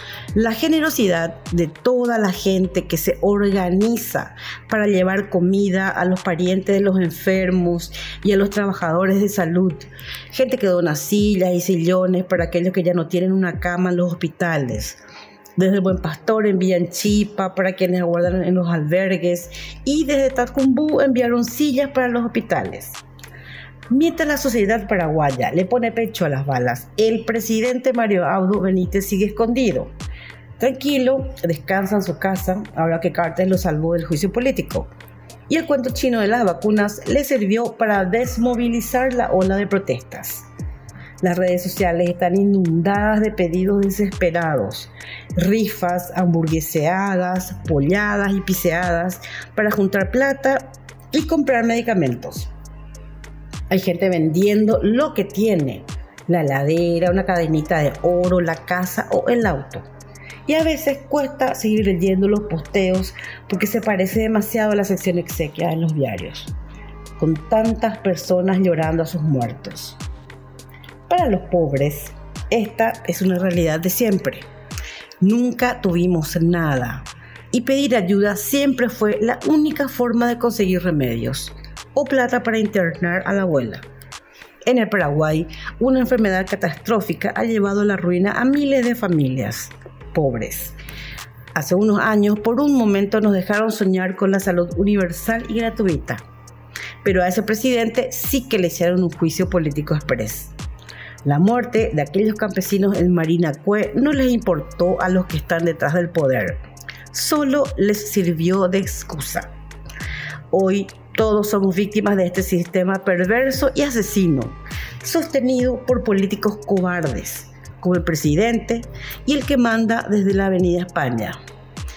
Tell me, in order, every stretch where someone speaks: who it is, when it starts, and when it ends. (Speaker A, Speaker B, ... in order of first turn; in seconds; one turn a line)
Speaker A: 0.3-15.0
Speaker A: 15.6-23.0
Speaker A: 23.9-29.9
Speaker A: 30.6-34.9
Speaker A: 35.5-40.5
Speaker A: 41.2-52.5
Speaker A: 53.7-59.9
Speaker A: 60.5-66.5
Speaker A: 67.2-70.0
Speaker A: 71.1-74.5
Speaker A: 75.2-83.8
Speaker A: 84.6-90.8
Speaker A: 91.5-96.2
Speaker A: 97.0-100.5
Speaker A: 101.2-109.5
Speaker A: 110.5-121.4